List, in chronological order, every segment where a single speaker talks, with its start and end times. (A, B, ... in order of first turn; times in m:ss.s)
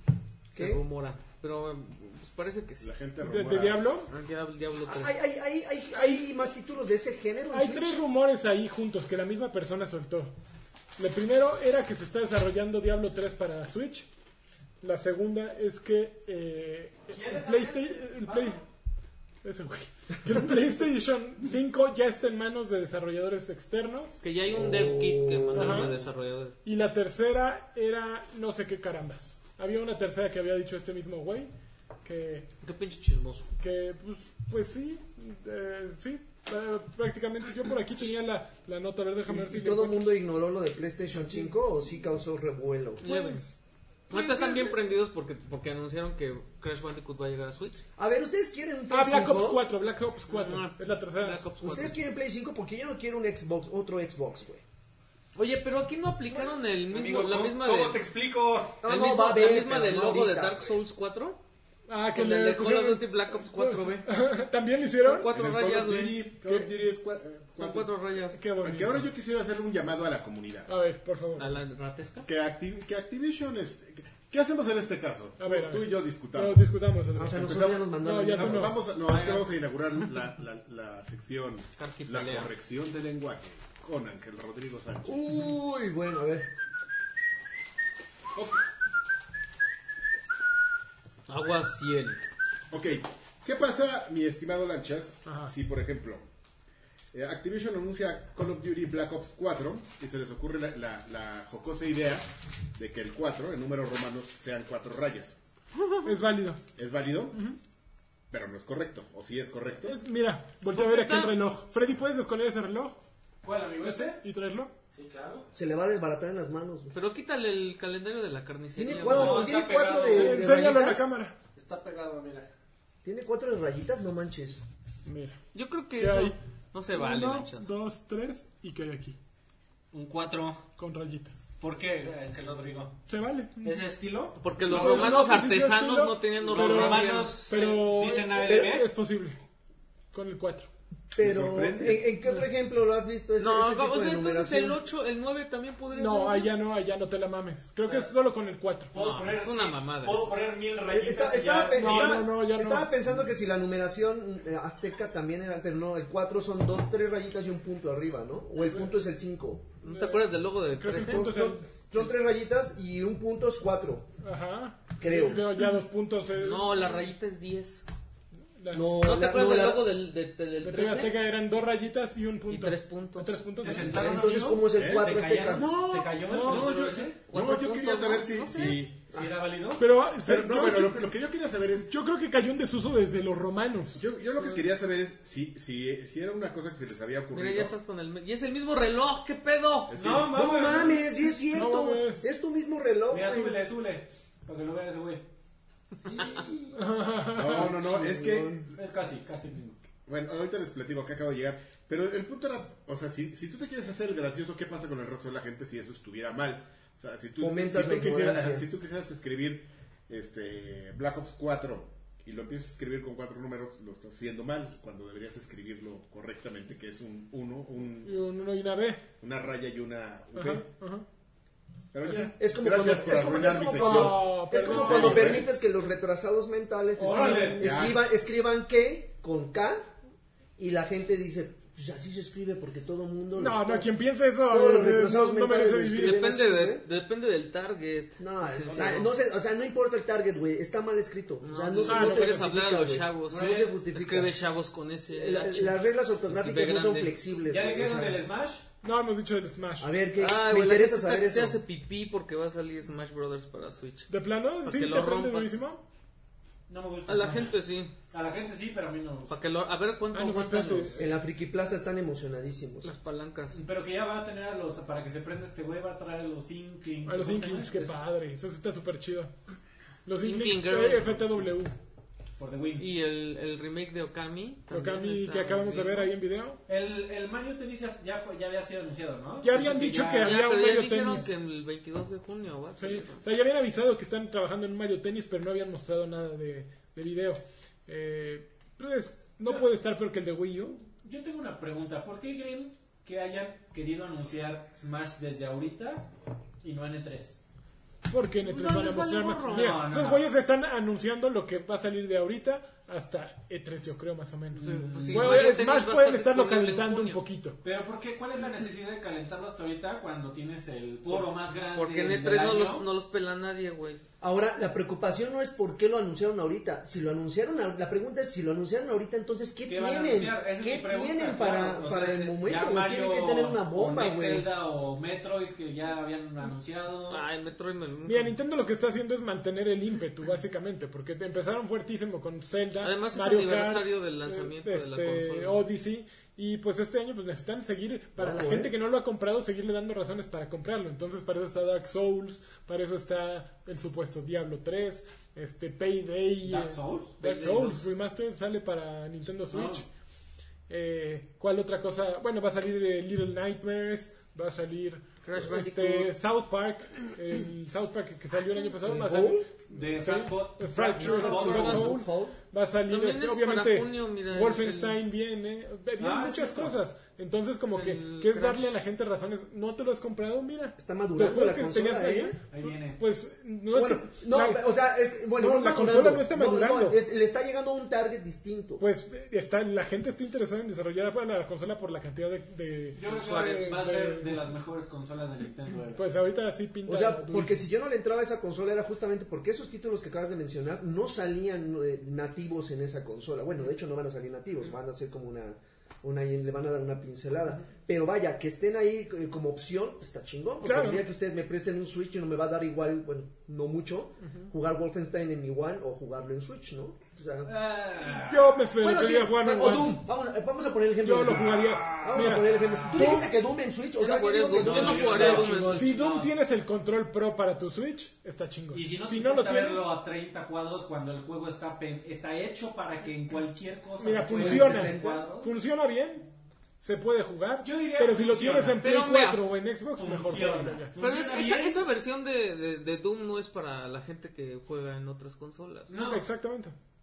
0:00.5-0:02.9 A
0:00.5-0:00.8 B
0:02.8-0:03.9 C
0:03.2-0:04.1 D
0:04.1-0:05.2 A
0:04.9-0:08.0 B
0:05.9-0:06.2 D
0:07.5-0:10.3 D
0:11.0-0:14.1 D
0:14.8-0:18.6 D
0:17.1-0:18.6 E
0:19.4-0:24.2 D
0:24.2-0:26.6 A
0:24.5-0:25.9 B
0:25.5-0:25.9 D
0:26.6-0:31.5 D
0:32.0-0:32.5 D
0:32.6-0:33.5 A
0:33.6-0:40.2 D
0:39.3-0:43.0 B
0:41.2-0:41.5 D
0:43.0-0:43.5 A
0:43.0-0:43.6 D
0:44.1-0:47.8 A
0:44.1-0:44.8 D
0:48.0-0:49.6 B
0:48.9-0:51.5 D
0:50.3-0:52.0 A
0:51.6-0:54.6 B
0:55.4-0:58.0 A
0:56.3-0:58.8 E
0:58.8-1:00.7 B
0:58.8-1:01.4 A
1:01.9-1:05.3 D
1:02.1-1:04.1 A
1:05.0-1:06.3 A
1:05.3-1:07.9 C
1:06.4-1:06.7 D
1:07.6-1:08.4 A
1:08.3-1:09.0 D
1:08.6-1:10.7 C
1:10.7-1:11.6 D
1:11.4-1:12.3 A
1:12.2-1:16.7 C
1:15.4-1:18.8 D
1:17.2-1:18.7 B
1:17.3-1:25.5 C
1:19.1-1:19.5 E
1:21.8-1:22.5 A
1:25.0-1:26.5 B
1:31.3-1:32.2 A
1:32.7-1:36.3 C
1:35.3-1:35.5 D
1:37.1-1:45.4 C
1:45.8-1:46.1 A
1:46.0-1:46.6 D
1:46.8-1:47.4 C
1:47.3-1:47.6 D
1:48.3-1:50.0 C
1:49.8-1:53.0 D
1:50.7-1:51.4 A
1:53.4-1:54.2 E
1:53.8-1:54.7 D
1:54.9-1:55.5 E
1:55.5-1:56.9 B
1:56.9-1:59.5 A
1:58.8-2:01.1 B
1:58.9-2:00.6 E
2:00.1-2:01.4 D
2:01.6-2:02.5 E
2:03.0-2:04.6 B
2:05.0-2:05.4 D
2:05.5-2:07.7 A
2:06.0-2:06.4 D
2:06.9-2:09.2 D
2:09.9-2:10.6 E
2:10.8-2:11.5 D
2:11.6-2:13.0 E
2:13.1-2:13.9 D
2:13.6-2:15.2 E
2:14.4-2:17.4 A
2:14.6-2:19.4 D
2:16.5-2:18.9 E
2:18.5-2:18.7 B
2:20.1-2:20.7 D
2:21.1-2:24.8 B
2:21.2-2:22.1 C
2:23.4-2:26.5 A
2:25.9-2:28.9 D
2:27.8-2:28.1 E
2:28.9-2:32.2 E
2:28.9-2:30.3 A
2:30.9-2:39.8 B
2:31.7-2:33.0 D
2:38.6-2:38.9 D
2:39.8-2:41.3 A
2:39.8-2:42.0 D
2:41.0-2:44.1 B
2:44.2-2:47.0 D
2:45.0-2:45.6 B
2:46.4-2:47.8 A
2:48.6-2:49.0 D
2:48.7-2:50.0 B
2:49.0-2:51.1 A
2:50.6-2:54.5 D
2:52.5-2:53.9 A
2:53.6-2:57.2 E
2:53.8-2:56.2 B
2:54.7-2:55.1 C
2:56.2-2:56.8 D
2:56.4-2:58.8 A
2:56.5-2:56.8 C
2:57.3-2:59.0 C
2:59.1-2:59.8 E
2:59.8-3:01.0 D
3:00.2-3:01.9 C
3:01.8-3:04.0 D
3:04.0-3:07.7 C
3:07.3-3:10.0 A
3:09.9-3:10.4 C
3:10.0-3:11.1 E
3:10.2-3:13.6 B
3:11.5-3:12.2 D
3:13.1-3:15.2 E
3:16.1-3:16.8 B
3:16.7-3:17.8 D
3:17.3-3:18.7 C
3:17.4-3:18.7 B
3:18.8-3:19.8 E
3:20.1-3:38.2 C
3:27.4-3:28.7 B
3:38.0-3:39.0 D
3:39.2-3:40.7 C
3:40.4-3:41.0 D
3:41.9-3:45.5 C
3:42.0-3:42.4 D
3:42.4-3:49.9 B
3:43.6-3:45.5 D
3:47.0-3:47.7 E
3:47.0-3:47.9 D
3:47.6-3:48.1 C
3:50.6-3:53.9 B
3:53.4-3:56.2 D
3:54.5-3:56.8 B
3:55.9-3:59.1 A
3:58.2-4:04.3 B
4:01.4-4:07.2 A
4:01.8-4:02.5 D
4:03.3-4:03.7 E
4:05.1-4:08.2 B
4:07.5-4:08.6 E
4:08.8-4:09.9 D
4:09.8-4:11.6 B
4:10.2-4:15.5 A
4:14.1-4:15.8 D
4:16.7-4:17.5 E
4:17.1-4:17.9 A
4:18.1-4:19.3 E
4:19.3-4:21.1 A
4:20.1-4:21.1 D
4:21.0-4:22.9 B
4:22.8-4:23.6 A
4:23.5-4:28.0 E
4:27.0-4:29.3 D
4:30.1-4:31.7 D
4:30.2-4:31.2 A
4:32.4-4:32.9 E
4:32.8-4:36.1 A
4:34.7-4:36.6 D
4:36.7-4:40.4 E
4:39.4-4:41.3 D
4:40.2-4:43.2 A
4:42.8-4:50.8 D
4:51.0-4:56.1 E
4:56.6-4:57.4 E
4:58.1-5:07.6 D
4:58.4-4:59.8 A
4:59.4-5:00.2 E
5:04.6-5:05.5 E
5:04.6-5:07.2 A
5:07.6-5:12.9 E
5:11.7-5:14.0 A
5:14.2-5:24.5 B
5:19.7-5:27.2 E
5:27.1-5:28.4 A
5:28.1-5:49.9 D
5:32.8-5:35.6 A
5:38.2-5:38.7 B
5:46.4-5:47.2 E
5:47.2-5:47.9 A
5:49.5-5:49.8 E
5:50.7-5:59.5 D
5:55.2-5:56.1 A
5:58.7-5:59.5 B
5:59.7-6:01.9 E
6:00.0-6:14.6 D
6:01.0-6:02.4 B
6:01.3-6:02.0 A
6:02.9-6:05.0 A
6:06.0-6:06.8 E
6:07.7-6:08.8 A
6:10.8-6:12.4 B
6:12.5-6:13.0 E
6:13.7-6:18.8 B
6:15.4-6:17.0 D
6:18.8-6:24.5 D
6:23.0-6:26.0 E
6:23.1-6:23.8 A
6:26.0-6:27.6 D
6:26.9-6:47.5 B
6:40.6-6:41.0 D
6:47.4-6:48.5 E
6:48.3-6:50.0 D
6:48.8-6:56.0 B
6:51.0-6:53.3 D
6:51.6-6:52.2 C
6:54.0-6:55.9 A
6:54.6-6:56.3 E
6:54.9-6:59.9 D
6:58.7-7:05.6 E
7:04.0-7:06.3 D
7:04.4-7:05.3 B
7:06.8-7:11.0 D
7:07.6-7:08.8 E
7:08.8-7:09.4 A
7:10.0-7:11.8 E
7:11.0-7:15.9 A
7:15.9-7:16.3 E
7:16.0-7:16.7 D